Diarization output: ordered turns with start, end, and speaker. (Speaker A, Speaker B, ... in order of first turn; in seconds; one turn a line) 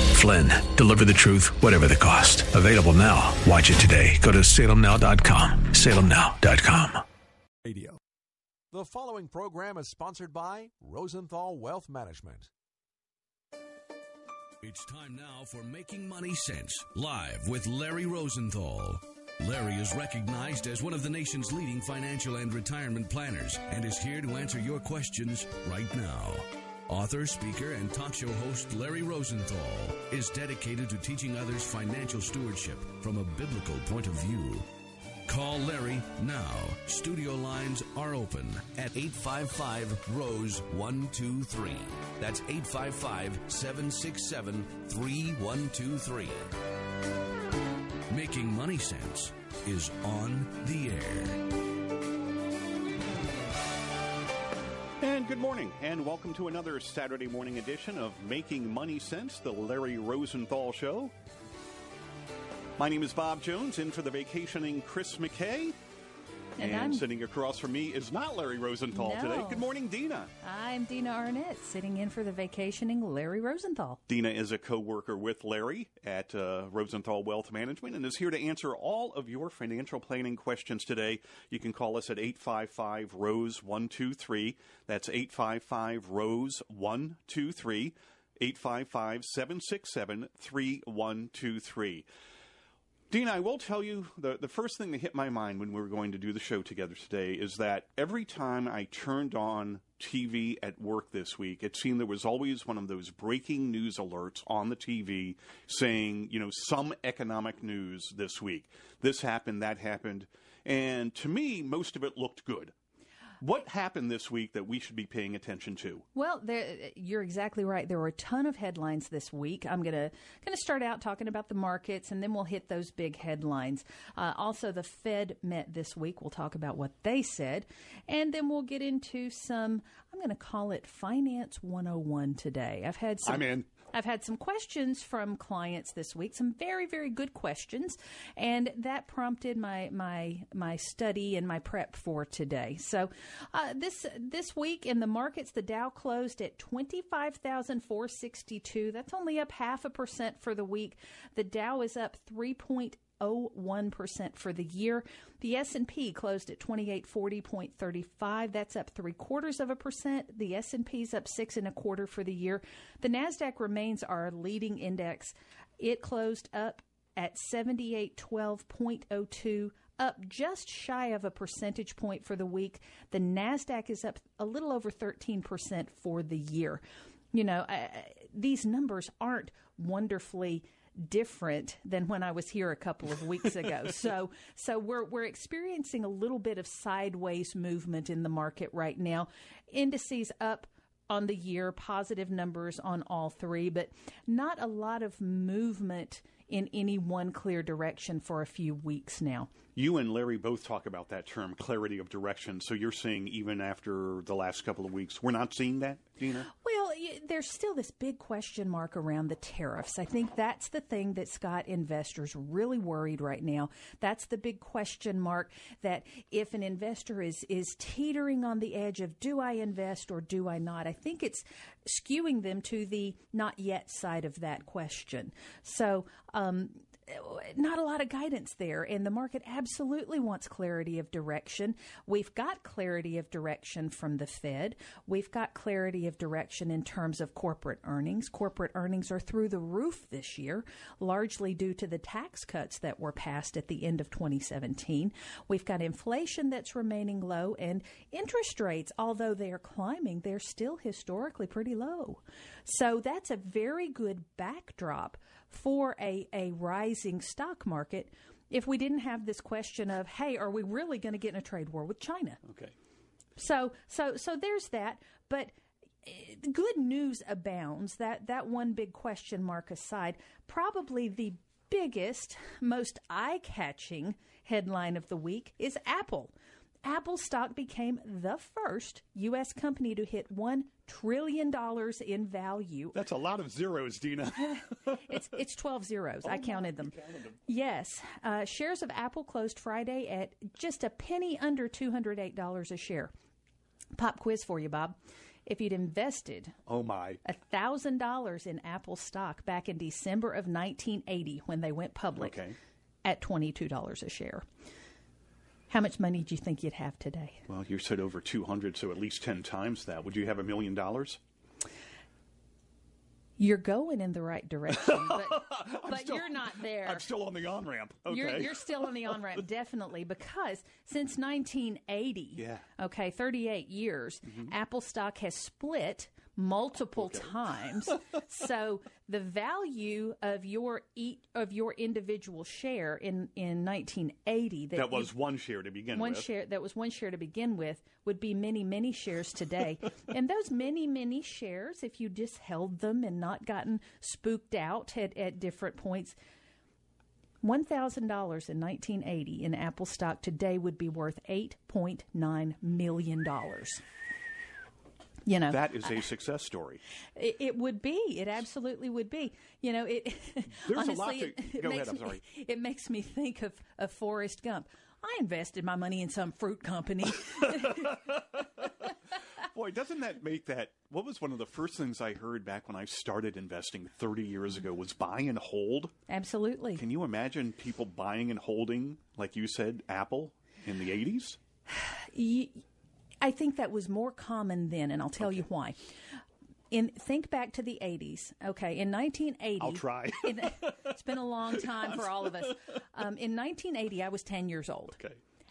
Speaker A: 0.1-7.0
Speaker B: 7.6-8.0
Speaker B: 8.7-12.5
Speaker C: 14.6-34.6
Speaker C: 35.3-46.5
Speaker C: 48.1-51.5
Speaker D: 55.0-61.1
Speaker D: 62.8-65.8
Speaker E: 66.6-67.0
Speaker D: 66.6-70.3
Speaker E: 68.9-69.7
Speaker E: 70.4-74.0
Speaker D: 74.1-92.1
Speaker D: 93.1-112.7
Speaker D: 113.4-116.0
Speaker E: 116.1-176.8
Speaker D: 133.2-133.7
Speaker E: 177.3-199.5
Speaker D: 199.7-206.5
Speaker E: 206.5-262.4
Speaker D: 262.4-262.7
Speaker E: 263.4-265.5
Speaker E: 266.0-276.3
Speaker E: 276.8-283.0
Speaker D: 282.9-285.2
Speaker E: 284.9-286.9
Speaker D: 286.2-287.3
Speaker E: 287.5-293.1
Speaker E: 293.9-296.6
Speaker D: 296.7-297.2
Speaker E: 297.2-302.4
Speaker D: 302.1-302.6
Speaker E: 303.0-304.4
Speaker E: 305.7-307.4
Speaker D: 307.5-311.2
Speaker E: 313.4-317.1
Speaker D: 314.7-319.4
Speaker E: 318.1-335.1
Speaker D: 322.4-322.7
Speaker D: 326.9-327.3
Speaker D: 334.7-336.3
Speaker E: 335.9-346.1
Speaker E: 347.4-353.8
Speaker E: 355.2-355.9
Speaker D: 355.5-356.8
Speaker E: 357.1-368.0
Speaker D: 360.5-362.2
Speaker D: 367.4-368.7
Speaker D: 369.4-375.9
Speaker E: 376.1-376.8
Speaker D: 376.7-381.4
Speaker E: 381.7-382.6
Speaker E: 383.2-385.8
Speaker E: 386.7-395.0
Speaker D: 389.6-390.9
Speaker D: 391.6-392.0